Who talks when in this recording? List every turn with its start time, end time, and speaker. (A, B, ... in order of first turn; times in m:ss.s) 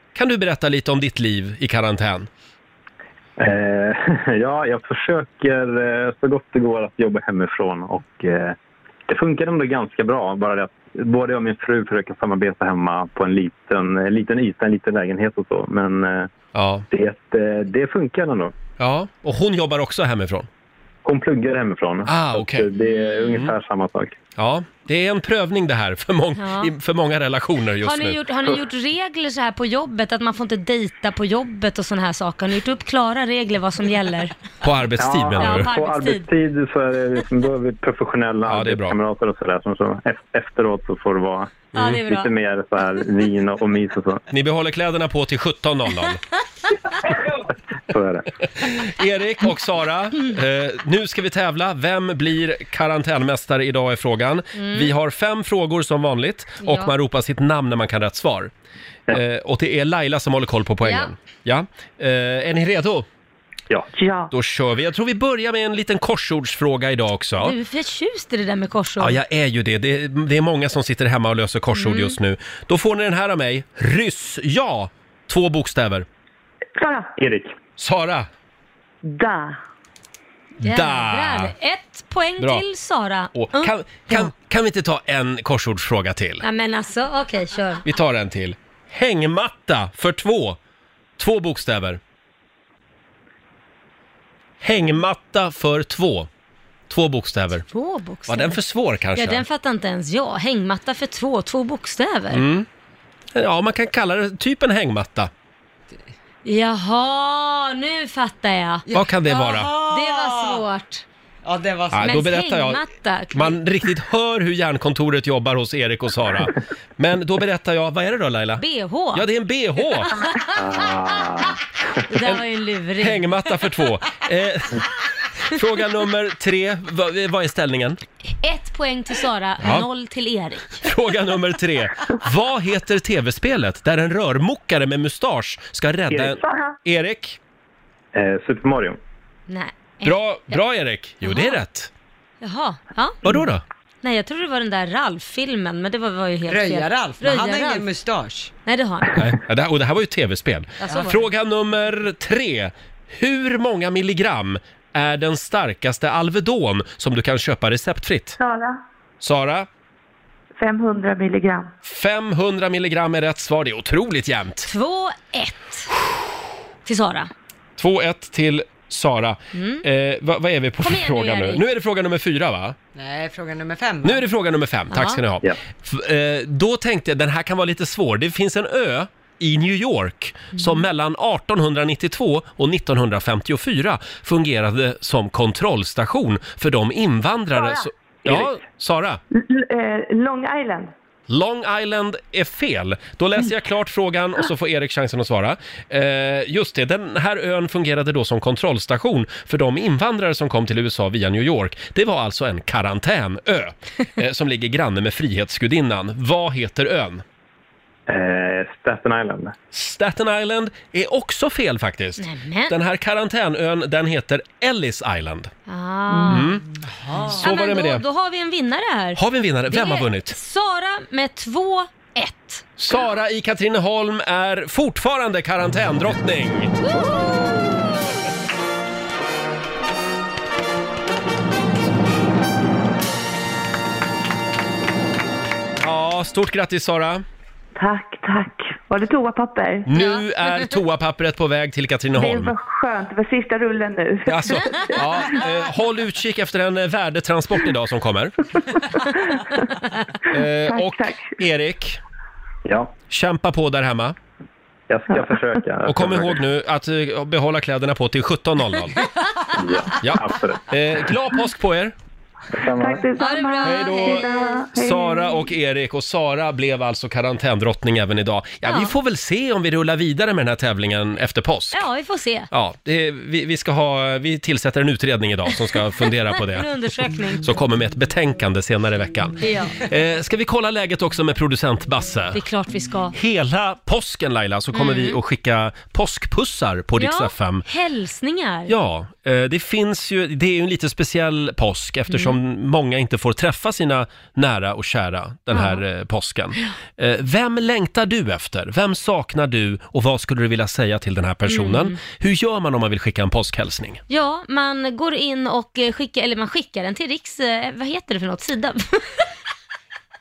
0:00.1-0:02.3 A
0:03.4-0:08.6 B
0:09.1-0:16.3 B
0:16.5-0:16.9 A
0:16.9-0:18.5 B
0:18.8-0:20.5 A
0:21.0-0:24.2 B
0:22.0-0:22.7 A
0:22.8-0:23.4 C
0:24.4-0:28.2 A
0:26.4-0:26.7 C
0:27.8-0:34.4 C
0:34.6-0:35.7 A
0:35.0-0:44.2 B
0:35.4-0:36.2 C
0:38.5-0:39.0 A
0:41.7-0:42.3 C
0:44.3-0:46.2 A
0:47.0-0:48.3 B
0:48.6-0:58.5 A
0:54.6-0:54.9 C
0:56.6-0:56.9 C
0:59.1-1:03.1 A
1:00.8-1:01.1 C
1:04.0-1:04.3 D
1:04.3-1:07.5 A
1:07.4-1:09.2 C
1:09.0-1:16.0 A
1:11.8-1:12.2 C
1:16.8-1:17.1 D
1:17.2-1:17.5 B
1:17.8-1:18.3 A
1:19.0-1:19.6 D
1:20.6-1:21.5 A
1:20.6-1:24.3 C
1:23.3-1:26.4 A
1:26.4-1:27.8 C
1:27.8-1:30.6 A
1:31.2-1:32.0 A
1:34.6-1:36.3 A
1:36.9-1:37.6 A
1:37.6-1:38.6 C
1:38.3-1:39.4 A
1:39.1-1:42.4 C
1:42.3-1:42.7 A
1:43.3-1:45.3 A
1:46.4-1:48.8 C
1:48.9-1:50.6 E
1:48.9-1:49.7 A
1:49.8-1:51.0 C
1:51.4-1:52.2 E
1:51.9-1:52.8 A
1:52.0-1:53.6 C
1:53.3-2:00.1 A
1:58.6-1:59.2 C
2:00.1-2:00.6 C
2:00.5-2:01.6 B
2:02.0-2:03.2 C
2:03.0-2:04.8 A
2:05.4-2:08.0 A
2:08.4-2:10.8 C
2:09.6-2:09.9 A
2:10.8-2:17.4 A
2:16.1-2:16.5 B
2:18.1-2:19.0 B
2:19.5-2:20.6 C
2:20.0-2:21.9 A
2:21.2-2:21.6 C
2:22.4-2:23.2 C
2:23.2-2:23.6 A
2:24.0-2:27.9 C
2:26.5-2:28.5 E
2:28.6-2:29.2 C
2:29.1-2:38.4 A
2:30.8-2:31.2 C
2:38.4-2:38.8 D
2:39.2-2:39.7 A
2:40.6-2:41.7 D
2:41.8-2:44.7 A
2:44.6-2:45.9 C
2:46.9-2:47.3 C
2:47.8-2:52.8 A
2:49.5-2:49.8 C
2:50.8-2:51.6 C
2:52.9-2:54.2 E
2:54.0-3:09.2 A
2:54.9-2:55.2 C
3:07.6-3:07.9 D
3:09.3-3:10.9 D
3:11.3-3:27.2 A
3:28.1-3:29.5 B
3:29.7-3:35.5 A
3:32.2-3:32.8 C
3:35.7-3:36.6 C
3:36.1-3:36.5 D
3:36.3-3:36.6 A
3:37.0-3:37.4 E
3:37.4-3:38.0 A
3:37.4-3:42.7 C
3:39.2-3:40.4 A
3:42.8-3:46.7 A
3:46.9-3:47.8 C
3:55.8-3:57.2 A
3:57.8-3:59.9 D
3:59.9-4:02.5 A
3:59.9-4:00.2 C
4:02.1-4:05.4 D
4:04.2-4:08.4 A
4:10.3-4:12.0 A
4:10.6-4:11.4 D
4:12.6-4:12.9 B
4:13.1-4:14.2 A
4:14.9-4:16.4 B
4:15.8-4:19.0 A
4:19.5-4:20.7 B
4:20.0-4:21.9 A
4:22.5-4:23.0 B
4:22.7-4:25.5 D
4:23.2-4:24.3 C
4:23.6-4:31.8 A
4:28.6-4:28.9 C
4:31.7-4:32.5 C
4:32.5-4:36.7 A
4:36.4-4:37.5 C
4:37.4-4:42.4 A
4:39.4-4:39.8 C
4:42.3-4:43.1 C
4:43.1-4:47.6 A
4:44.7-4:45.2 C
4:47.0-4:48.7 C
4:48.7-5:04.0 A
4:52.1-4:52.4 C
4:55.5-4:55.8 C
5:01.5-5:02.0 C
5:04.1-5:09.2 C